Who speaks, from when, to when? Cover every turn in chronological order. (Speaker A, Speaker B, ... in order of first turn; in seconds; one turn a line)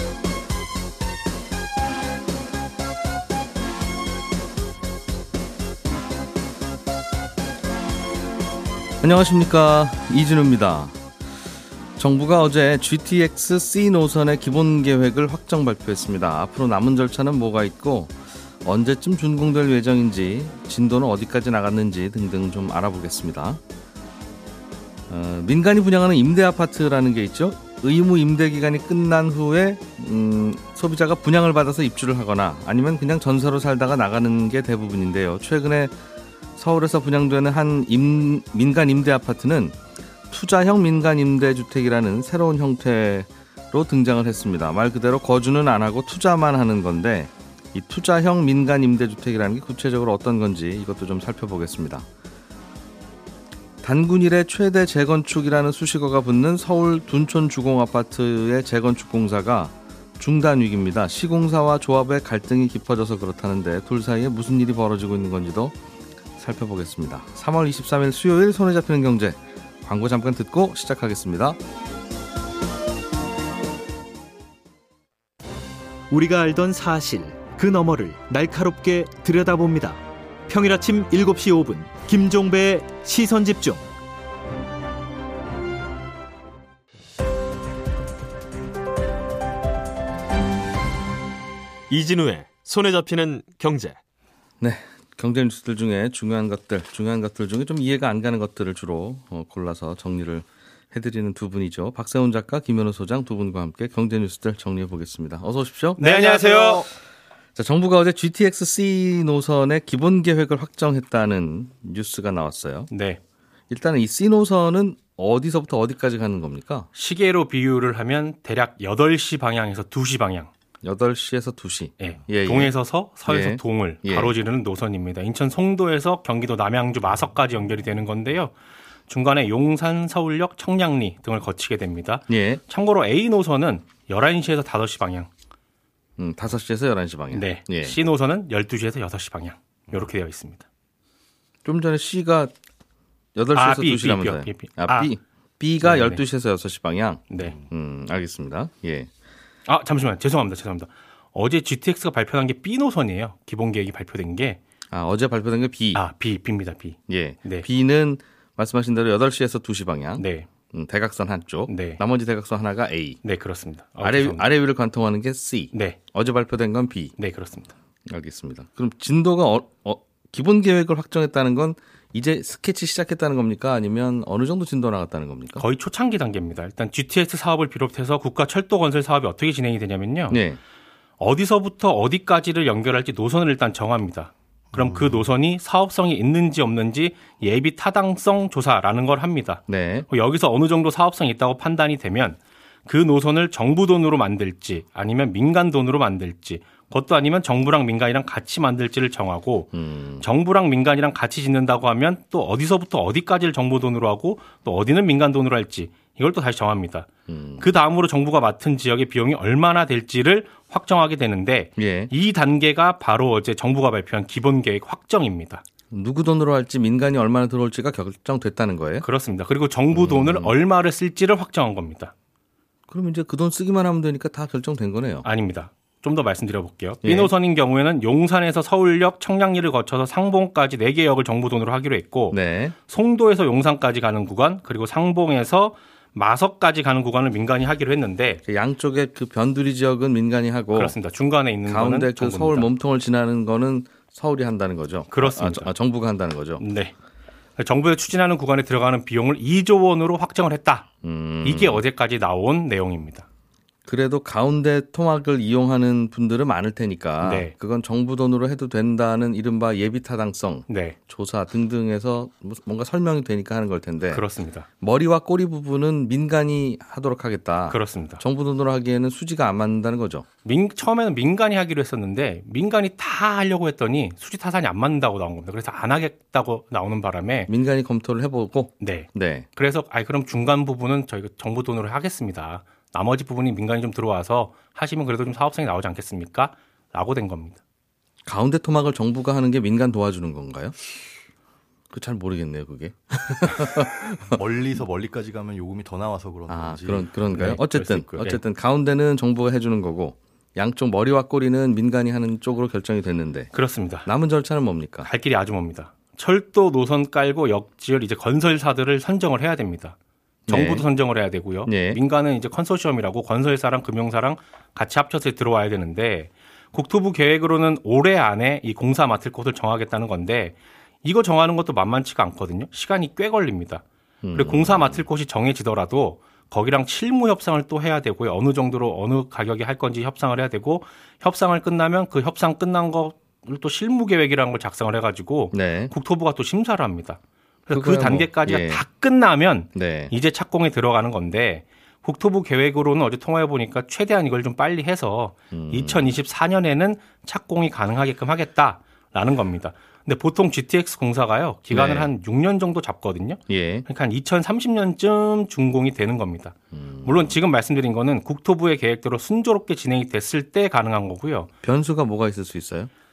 Speaker A: 9.0-10.9
Speaker A: 12.0-23.6
Speaker A: 25.1-35.9
Speaker A: 36.5-39.8
Speaker A: 40.3-52.1
Speaker A: 53.8-65.8
Speaker A: 66.4-71.6
Speaker B: 76.1-83.8
Speaker C: 91.9-94.0
Speaker A: 94.6-106.0
Speaker D: 106.0-106.8
Speaker B: 106.0-106.8
Speaker A: 107.5-112.9
Speaker D: 112.9-113.2
Speaker A: 113.7-116.9
Speaker D: 116.9-120.5
Speaker A: 120.8-122.7
Speaker D: 122.0-128.5
Speaker A: 123.2-124.3
Speaker D: 129.1-135.3
Speaker A: 132.3-132.6
Speaker A: 136.2-138.0
Speaker D: 137.3-140.7
Speaker A: 141.6-142.5
Speaker A: 143.3-149.1
Speaker D: 143.5-145.1
Speaker D: 145.8-146.2
Speaker D: 147.3-147.6
Speaker D: 149.7-154.6
Speaker A: 154.9-156.0
Speaker D: 155.9-157.7
Speaker A: 157.1-163.2
Speaker D: 160.2-160.5
Speaker D: 161.7-162.0
Speaker D: 163.2-164.5
Speaker A: 164.0-167.1
Speaker D: 165.7-166.0
Speaker D: 167.2-167.7
Speaker A: 168.1-175.6
Speaker D: 175.6-180.4
Speaker A: 180.3-180.6
Speaker D: 181.2-215.6
Speaker E: 184.7-185.2
Speaker A: 189.7-190.1
Speaker A: 199.7-200.3
Speaker A: 207.3-207.7
Speaker A: 211.8-212.1
Speaker A: 215.9-219.1
Speaker D: 219.0-222.1
Speaker A: 219.9-220.5
Speaker A: 222.9-225.2
Speaker D: 225.2-238.4
Speaker A: 227.0-227.3
Speaker A: 232.3-232.7
Speaker A: 238.4-240.9
Speaker D: 240.7-242.7
Speaker A: 241.7-246.6
Speaker D: 245.1-245.7
Speaker D: 246.6-246.9
Speaker D: 247.6-250.9
Speaker A: 251.0-251.8
Speaker D: 251.4-253.2
Speaker A: 253.8-264.2
Speaker D: 257.2-257.5
Speaker D: 260.7-261.0
Speaker D: 264.1-264.7
Speaker A: 264.8-270.2
Speaker D: 267.7-268.2
Speaker D: 270.4-277.5
Speaker A: 277.5-279.5
Speaker D: 278.8-287.6
Speaker A: 288.2-290.8
Speaker A: 291.9-294.4
Speaker E: 294.3-297.1
Speaker A: 296.5-303.5
Speaker D: 297.3-298.4
Speaker D: 303.5-304.1
Speaker A: 304.0-305.1
Speaker D: 305.0-309.9
Speaker A: 310.5-310.9
Speaker D: 310.5-361.5
Speaker A: 311.6-312.0
Speaker A: 324.2-325.0
Speaker A: 335.5-335.9
Speaker A: 337.7-338.8
Speaker A: 339.7-340.1
Speaker A: 345.5-346.1
Speaker A: 351.7-352.1
Speaker A: 353.5-353.9
Speaker A: 356.7-357.4
Speaker A: 361.6-362.9